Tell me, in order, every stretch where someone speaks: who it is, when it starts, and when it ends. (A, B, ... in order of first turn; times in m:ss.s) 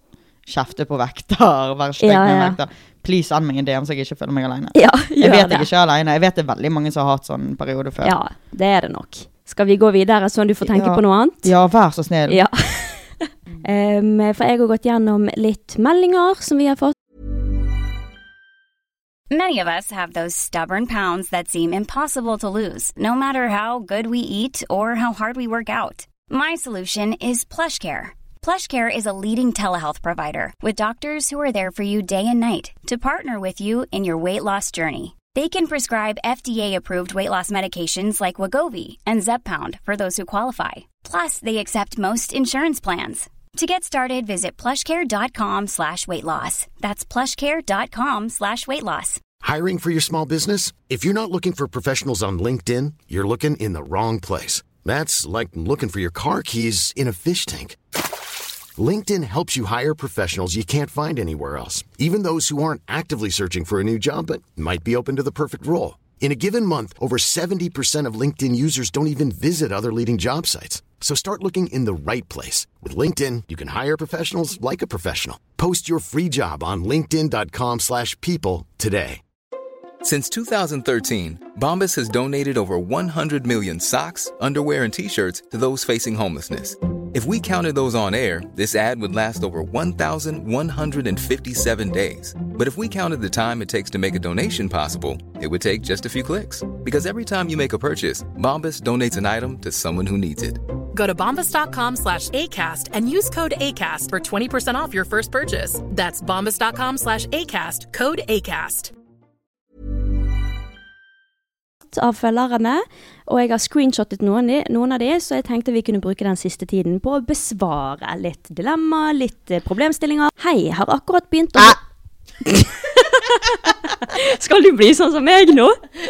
0:00.4-0:08.1 A
0:02.0-0:02.6 B
0:04.7-0:05.7 B
0:08.0-0:11.5 B
0:10.6-0:12.4 A
0:12.3-0:16.9 B
0:19.3-0:49.2 C
0:49.4-0:57.8 D
0:58.8-1:19.2 D
1:20.0-1:40.6 E
1:40.9-1:48.9 F
1:51.9-2:01.8 B
2:02.4-2:05.8 B